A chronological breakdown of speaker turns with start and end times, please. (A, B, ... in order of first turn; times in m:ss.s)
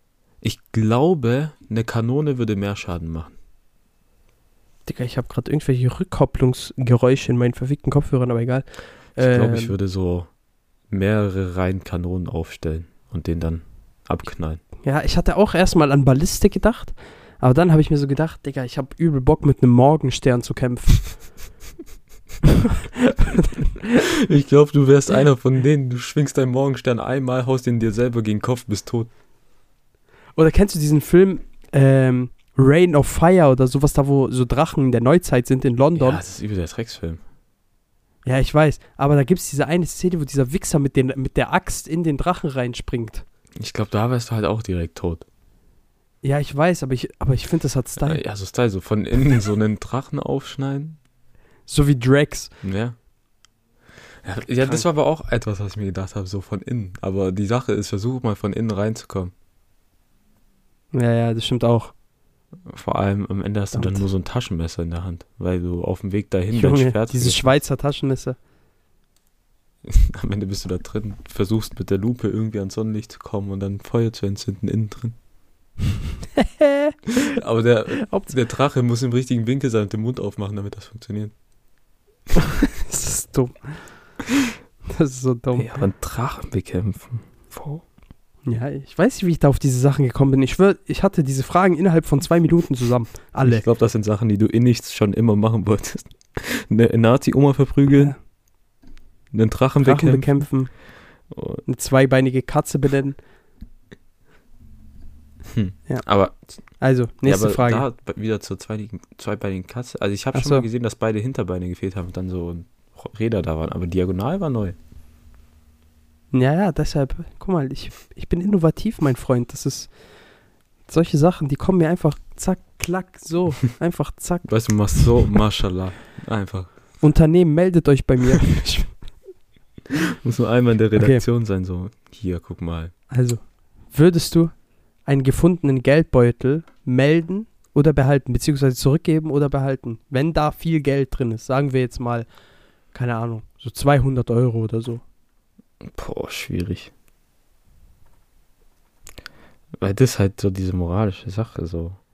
0:00.4-0:03.3 A
0:04.8-0:09.7 B
0:09.2-0:10.3 A
0:10.9-0:14.6 A
0:14.8-0:21.2 B
0:23.0-0:24.0 B
0:24.1-0:29.1 A
0:30.4-0:36.2 B
0:35.9-0:37.2 A
0:38.2-0:43.2 B
0:43.6-0:45.2 A
0:46.2-0:48.2 B
0:48.0-0:51.0 A
0:51.7-0:52.5 B
0:52.6-0:53.0 A
0:54.2-0:59.3 A
1:00.9-1:01.9 B
1:02.6-1:07.4 A
1:03.7-1:04.0 B
1:06.5-1:08.4 B
1:09.8-1:15.2 A
1:16.4-1:16.9 B
1:17.3-1:21.3 A
1:18.0-1:18.3 B
1:22.8-1:23.9 B
1:24.9-1:25.8 B
1:25.5-1:27.8 A
1:28.4-1:33.6 B
1:33.4-1:38.1 A
1:37.9-1:38.2 B
1:39.3-1:40.4 A
1:39.8-1:40.7 B
1:41.3-1:41.6 A
1:41.6-1:43.2 B
1:45.5-1:46.4 A
1:46.8-1:47.8 B
1:47.2-1:54.8 A
1:50.3-1:50.6 B
1:56.3-1:59.9 B
2:00.9-2:04.5 B
2:04.4-2:06.7 A
2:07.0-2:09.0 B
2:10.2-2:12.9 A
2:11.0-2:11.2 B
2:13.1-2:14.5 B
2:15.0-2:22.3 B
2:22.9-2:25.0 B
2:25.8-2:26.9 A
2:29.8-2:32.0 A